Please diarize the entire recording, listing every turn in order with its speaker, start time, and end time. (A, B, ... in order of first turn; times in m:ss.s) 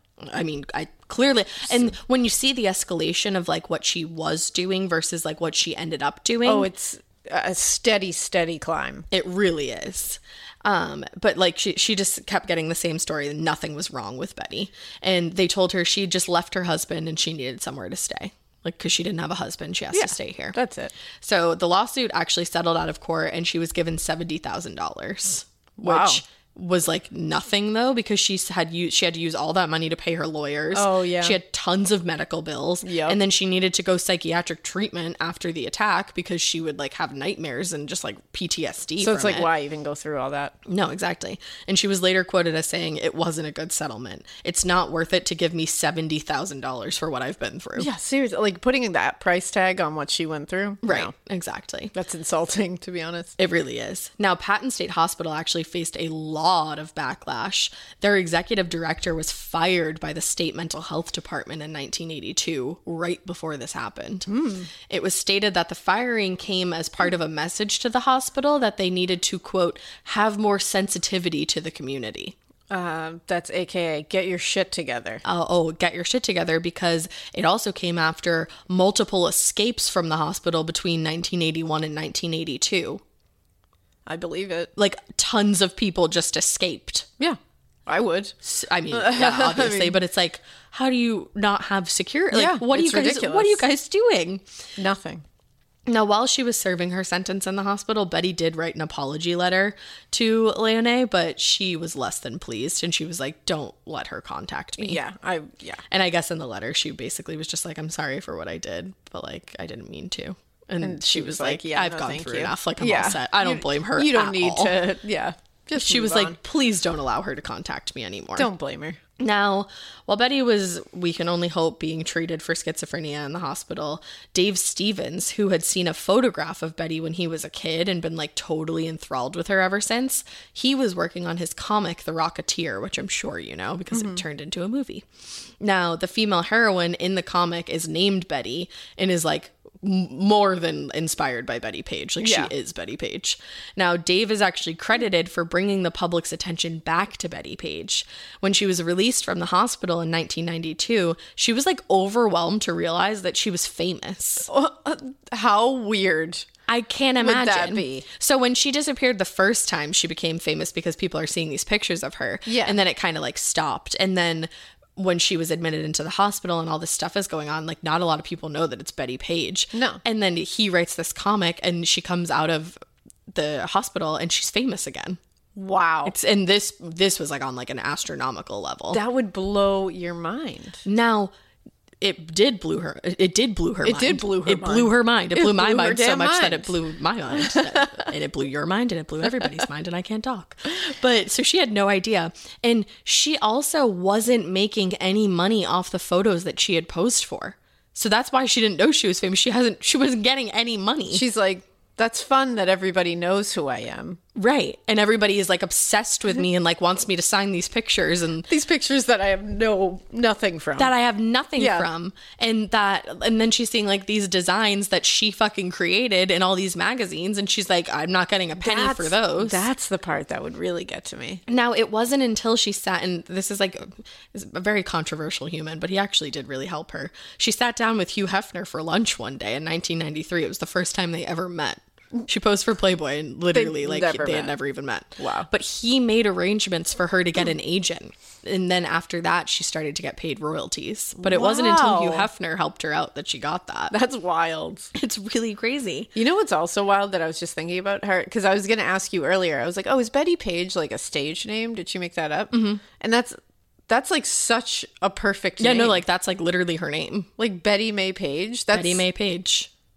0:00.3-0:06.7 A
0:06.4-0:09.1 B
0:09.1-0:20.5 A
0:19.9-0:20.9 B
0:21.2-0:39.5 A
0:25.8-0:26.2 B
0:30.7-0:31.4 B
0:32.8-0:33.2 B
0:39.0-0:40.6 B
0:40.7-0:47.9 A
0:47.8-0:51.1 B
0:50.8-0:51.9 A
0:51.9-0:53.3 B
0:53.4-1:04.3 A
1:04.3-1:04.7 B
1:04.9-1:12.4 A
1:12.7-1:15.2 B
1:15.3-1:23.0 A
1:24.1-1:24.7 B
1:24.8-1:27.1 A
1:27.2-1:28.4 B
1:28.4-1:34.4 A
1:28.9-1:30.0 B
1:32.3-1:33.6 B
1:34.8-1:35.2 B
1:35.9-1:45.0 A
1:44.8-1:45.8 B
1:45.9-1:54.7 A
1:50.8-1:56.4 B
1:55.8-1:58.5 A
1:58.4-1:59.0 B
1:59.2-2:15.0 A
2:13.9-2:14.2 B
2:15.6-2:34.5 A
2:22.2-2:22.5 B
2:34.5-2:36.5 B
2:36.7-2:52.8 A
2:37.2-2:38.1 B
2:42.5-2:42.8 B
2:49.7-2:50.0 B
2:53.3-2:55.2 A
2:55.6-2:56.2 B
2:56.1-2:59.0 A
2:58.9-3:00.8 B
3:00.9-3:01.3 A
3:02.0-3:21.2 A
3:03.8-3:06.7 B
3:07.3-3:08.1 B
3:21.1-3:24.2 B
3:24.4-3:28.5 A
3:28.5-3:30.9 B
3:30.8-3:39.6 A
3:31.6-3:31.9 B
3:38.6-3:41.4 B
3:41.5-4:03.9 A
3:53.5-3:54.5 B
3:55.2-3:55.5 B
4:01.2-4:02.3 B
4:03.9-4:04.9 B
4:05.0-4:06.1 A
4:06.2-4:16.0 B
4:12.5-4:12.8 A
4:15.6-4:17.3 A
4:17.4-4:19.0 B
4:18.7-4:19.7 A